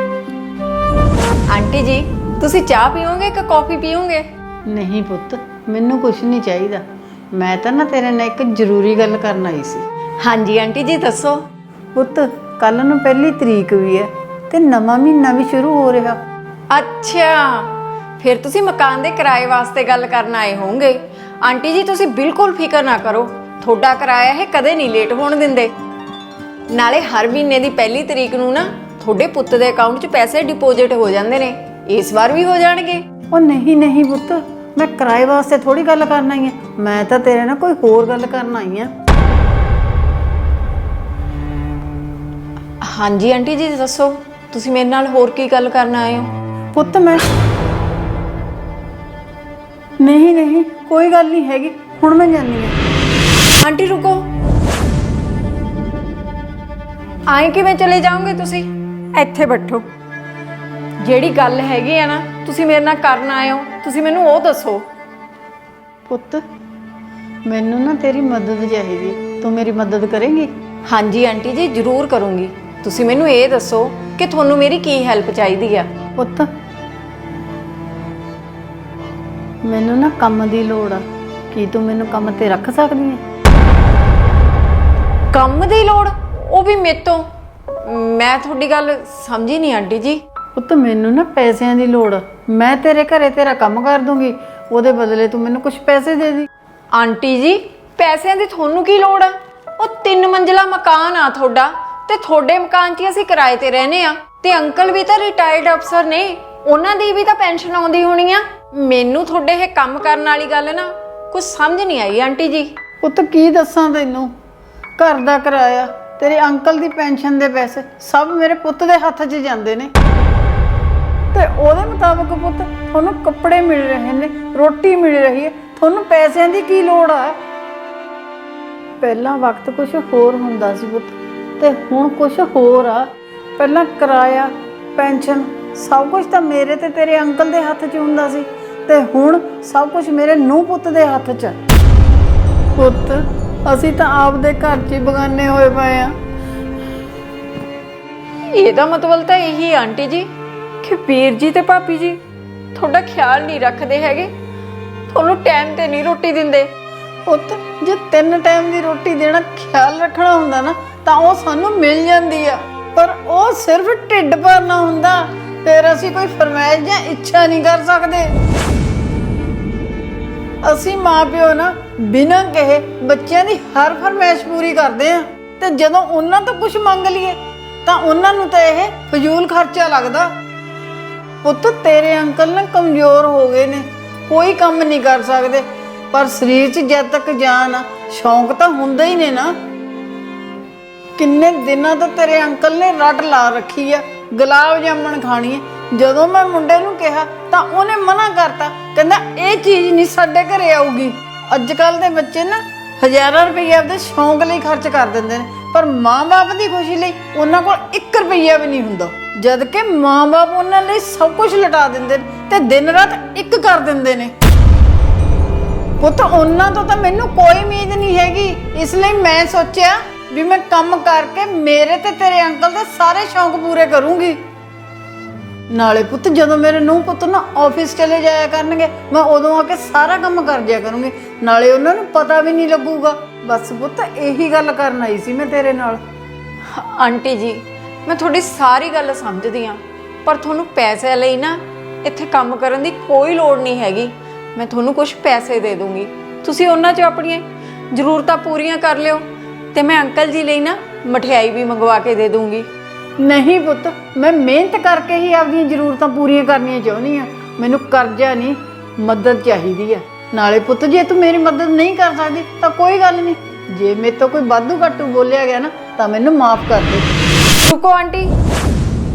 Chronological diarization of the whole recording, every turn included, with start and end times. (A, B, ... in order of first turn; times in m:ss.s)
0:01.5-0:04.3 A
0:04.7-0:09.8 B
0:10.2-0:11.5 A
0:11.9-0:16.2 B
0:16.7-0:25.7 A
0:26.7-0:33.0 A
0:33.3-0:38.9 B
0:42.8-0:46.3 A
0:46.7-0:47.2 B
0:50.0-0:52.8 B
0:53.6-0:54.3 A
0:57.3-0:59.8 A
1:01.0-1:04.9 A
1:06.1-1:06.4 B
1:07.4-1:10.5 B
1:10.8-1:15.9 A
1:16.2-1:16.5 B
1:19.6-1:23.2 B
1:25.3-1:27.3 A
1:27.8-1:30.2 A
1:30.6-1:36.5 B
1:36.9-1:52.7 A
1:53.0-1:54.3 B
1:55.0-1:59.9 B
2:01.3-2:07.4 B
2:09.0-2:21.6 B
2:22.8-2:26.2 B
2:28.5-2:30.3 A
2:30.8-2:32.2 A
2:32.7-2:34.3 A
2:35.1-2:36.7 A
2:37.3-2:48.3 B
2:50.6-3:00.3 B
3:01.4-3:09.6 B
3:11.2-3:34.3 B
3:36.0-3:44.4 B
3:45.7-3:56.0 B
3:56.6-4:12.7 A
4:13.2-4:27.1 B
4:27.6-4:28.3 A